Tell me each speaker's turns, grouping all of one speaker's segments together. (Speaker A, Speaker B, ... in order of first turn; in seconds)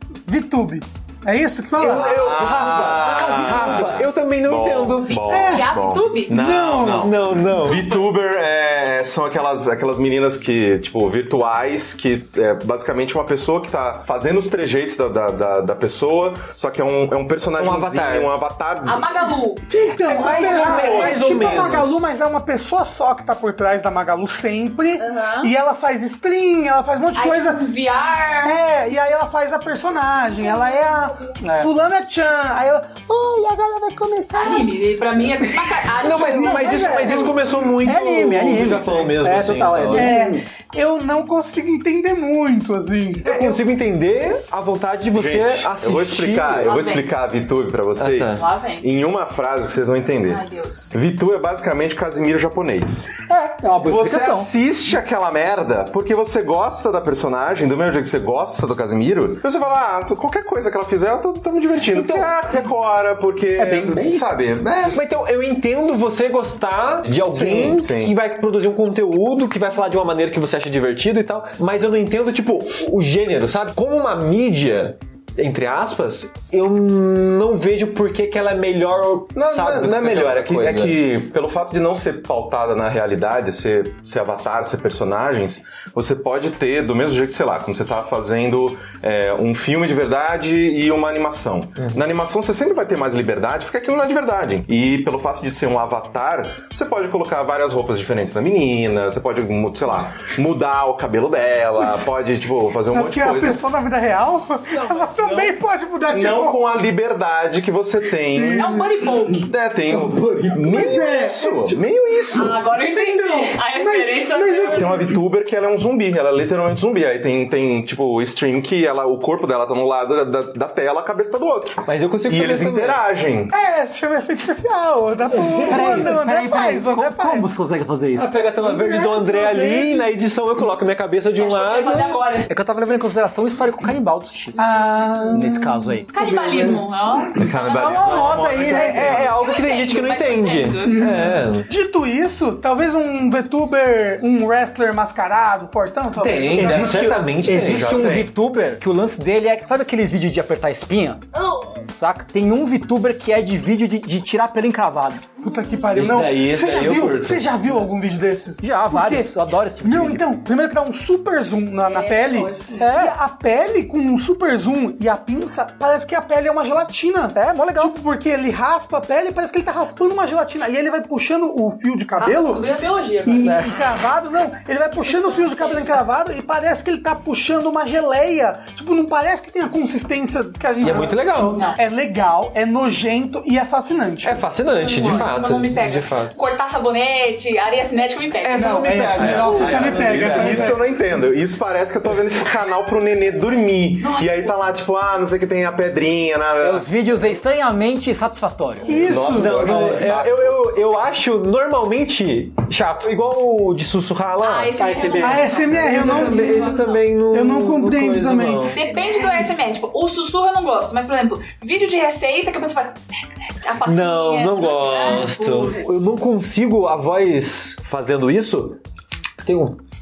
Speaker A: 0.3-2.2, 5.3-5.7, 6.3-7.3, 19.7-27.7, 28.4-34.7, 35.5-37.5, 39.9-43.6, 101.8-102.1, 102.8-106.6, 108.3-111.8, 112.8-115.2, 123.5-127.5, 128.6-130.1, 134.6-136.0, 140.9-147.2, 155.4-172.7, 173.2-184.5, 188.6-190.8, 198.8-199.8, 205.2-206.7, 207.3-209.5
Speaker B: 1.8-5.3, 6.9-7.8, 17.6-18.3, 19.9-22.0, 36.0-40.2, 43.2-46.8, 48.0-48.5, 62.0-62.3, 64.9-81.0, 104.7-105.5, 121.8-123.0, 125.5-126.1, 128.2-132.2, 136.2-136.7, 138.0-141.7, 146.1-148.1, 155.9-157.5, 180.8-181.7, 184.2-186.3, 188.4-190.8, 199.2-208.8, 213.8-218.8, 219.4-219.8
Speaker C: 1.8-19.1, 21.5-21.8, 45.1-53.1, 53.8-65.0, 67.2-68.2, 79.3-103.6, 106.1-108.7, 109.4-112.6, 114.7-123.5, 137.4-139.4, 147.5-148.3, 189.2-196.9, 198.9-200.6
Speaker D: 3.5-3.8, 5.1-6.4, 7.7-8.0, 18.9-19.6, 25.0-25.5, 27.1-28.6, 34.4-37.3, 46.6-47.1, 48.3-48.9, 50.2-50.9, 108.5-109.5, 112.3-115.0, 131.4-132.5, 136.1-138.1, 139.3-141.1, 151.4-151.8, 155.4-155.7, 161.8-162.8, 172.2-173.7, 175.0-176.0, 181.5-181.8, 184.7-188.8, 194.0-194.6, 204.4-207.0, 208.7-215.8
Speaker E: 20.0-21.6, 31.4-31.7, 37.8-40.5, 53.3-54.5, 63.6-64.3, 125.3-128.3, 132.5-134.7, 135.2-136.1, 137.7-139.3, 146.5-151.2, 151.9-155.3, 158.6-160.3, 162.8-163.2, 167.3-167.9, 173.4-173.8, 188.6-189.5, 196.6-199.2, 204.8-205.4